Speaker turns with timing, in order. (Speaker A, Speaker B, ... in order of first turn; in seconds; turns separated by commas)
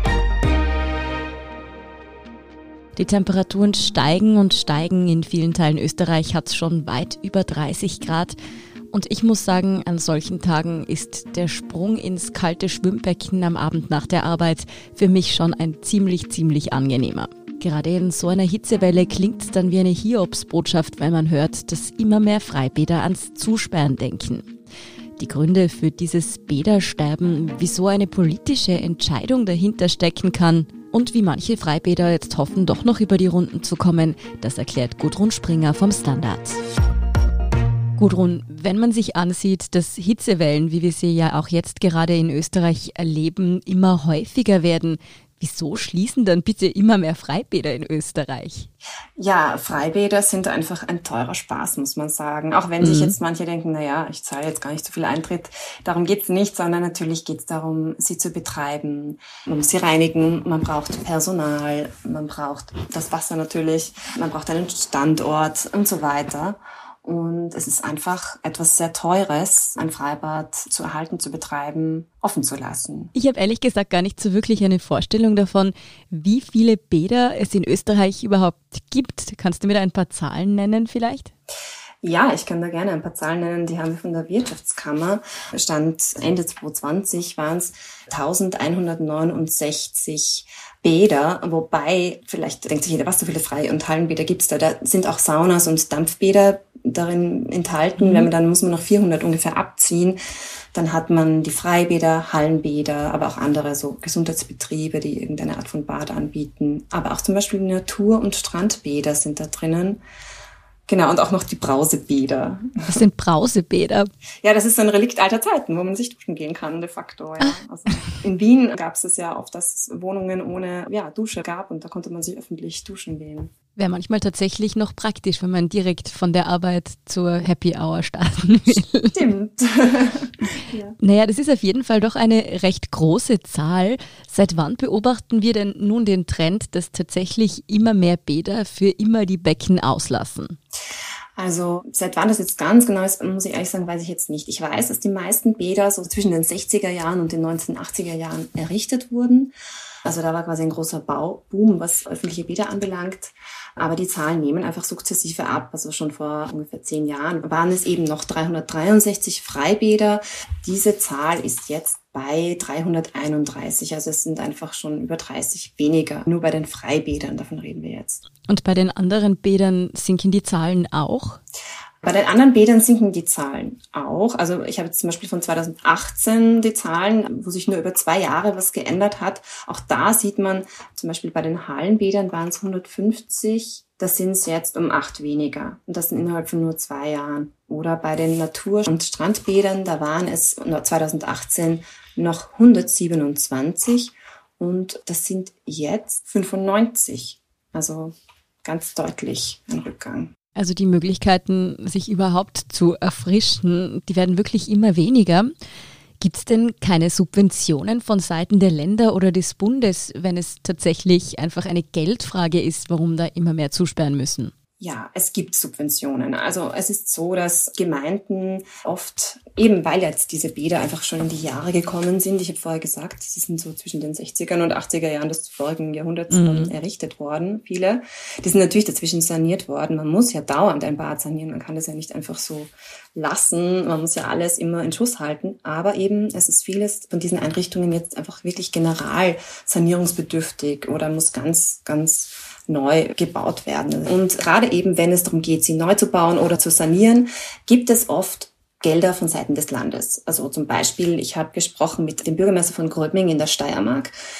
Speaker A: 3.0-8.3, Speaker A: 8.9-24.5, Speaker A: 25.2-36.6, Speaker A: 38.0-48.7, Speaker B: 49.2-73.1, Speaker A: 52.8-53.1, Speaker A: 73.1-81.3, Speaker B: 82.0-100.2, Speaker A: 98.0-98.3, Speaker B: 100.7-110.0, Speaker B: 110.9-113.0, Speaker A: 112.9-114.1, Speaker B: 114.4-123.5, Speaker A: 123.8-129.2, Speaker B: 129.1-131.0, Speaker A: 131.0-140.6, Speaker B: 141.4-149.5, Speaker B: 150.1-168.2, Speaker A: 168.5-171.4, Speaker B: 172.0-198.1, Speaker B: 198.6-200.3, Speaker A: 200.6-205.5, Speaker A: 206.2-214.5, Speaker B: 214.8-254.1, Speaker A: 226.3-226.7